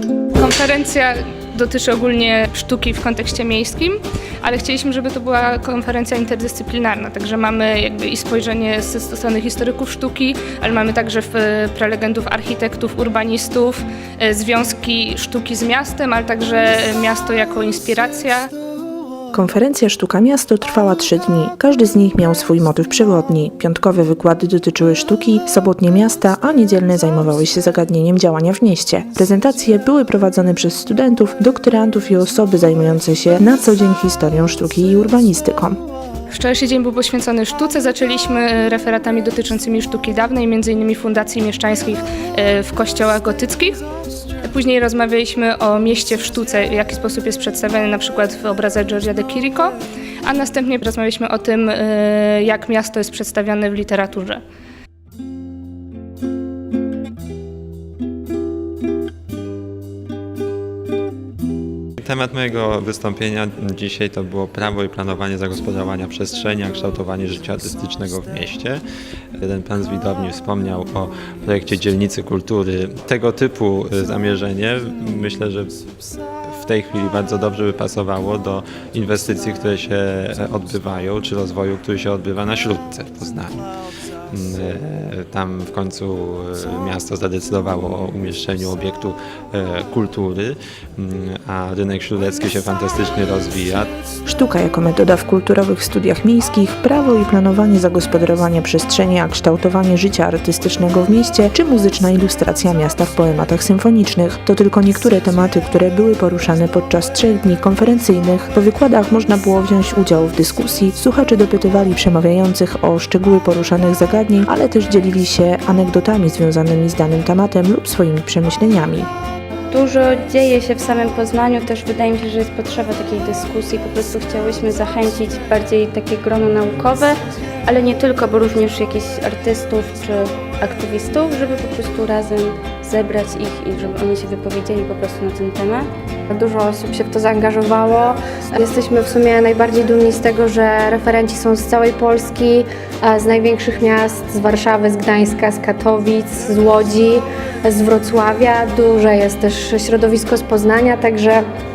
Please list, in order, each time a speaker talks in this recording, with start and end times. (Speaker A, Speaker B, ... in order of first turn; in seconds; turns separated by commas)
Speaker A: 0.3-18.5, Speaker B: 19.3-35.8, Speaker A: 36.3-43.8, Speaker A: 44.4-54.4, Speaker C: 62.0-68.8, Speaker C: 69.4-75.8, Speaker C: 76.5-83.7, Speaker C: 84.3-93.9, Speaker B: 94.2-119.1, Speaker D: 119.7-135.9, Speaker E: 136.3-151.4